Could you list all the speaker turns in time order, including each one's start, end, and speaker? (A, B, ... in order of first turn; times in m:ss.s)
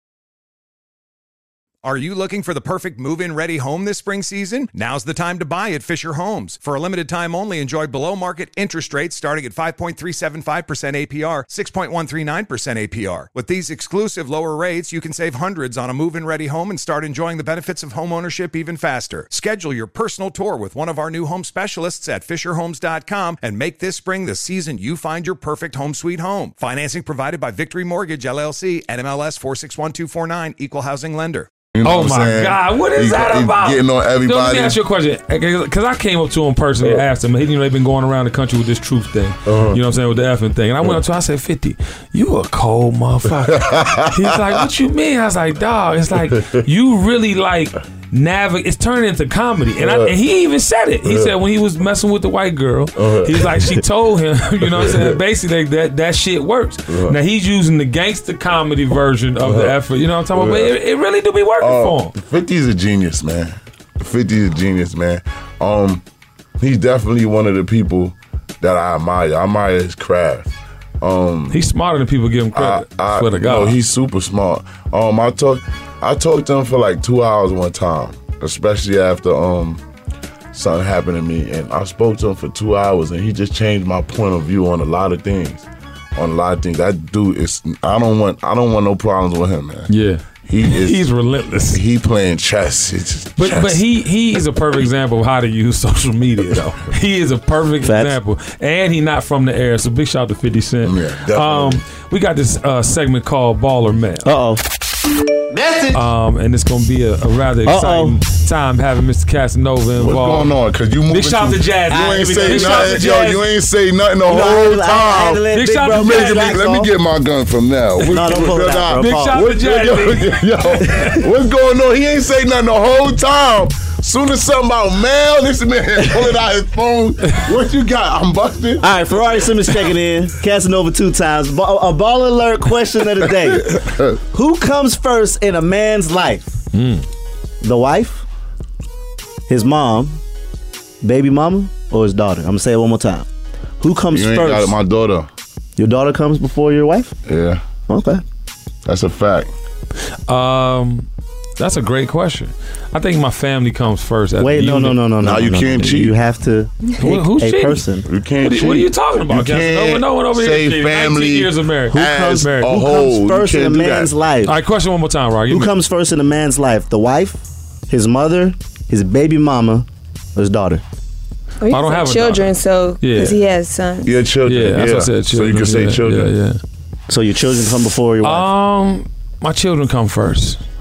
0:01.8-0:31.5 A
0:31.7-0:34.8 B
0:31.8-1:02.1 C
0:39.4-0:39.8 B
0:43.5-0:44.2 B
0:49.8-0:50.1 B
0:51.0-0:51.3 B
0:53.0-0:53.8 B
0:54.7-0:55.2 B
0:56.9-0:57.2 B
0:59.4-0:59.8 B
1:00.3-1:00.7 B
1:01.6-1:06.0 B
1:06.6-1:11.6 B
1:11.5-1:13.7 C
1:12.5-1:19.8 B
1:20.5-1:29.9 B
1:29.9-1:31.8 C
1:30.4-1:31.0 B
1:31.7-1:33.8 B
1:33.4-1:44.3 C
1:37.8-1:38.2 D
1:40.8-1:41.8 B
1:44.2-1:44.6 D
1:45.5-1:46.0 D
1:45.9-1:50.5 C
1:47.6-1:48.2 D
1:50.0-2:08.9 B
1:51.1-1:53.4 C
1:51.9-1:53.1 D
1:54.2-1:56.9 D
1:55.5-1:56.6 C
1:58.0-1:59.5 D
1:58.9-2:01.2 C
2:08.8-2:16.5 D
2:13.2-2:14.2 B
2:16.7-2:17.0 C
2:17.6-2:18.2 D
2:19.5-2:20.2 D
2:21.0-2:23.3 D
2:23.8-2:24.7 D
2:24.1-2:25.3 B
2:25.8-2:27.1 D
2:27.2-2:27.6 B
2:27.9-2:28.2 D
2:28.8-2:29.5 B
2:30.3-2:35.0 C
2:34.4-2:38.1 D
2:35.2-2:36.2 B
2:37.0-2:37.8 C
2:38.0-2:44.1 B
2:38.4-2:42.8 C
2:41.9-2:44.6 D
2:44.4-2:45.7 C
2:45.5-2:50.8 D
2:51.6-2:54.1 E
2:51.7-2:53.4 C
2:54.0-2:56.3 B
2:54.4-2:56.6 C
2:57.1-2:58.5 D
2:58.2-3:00.6 C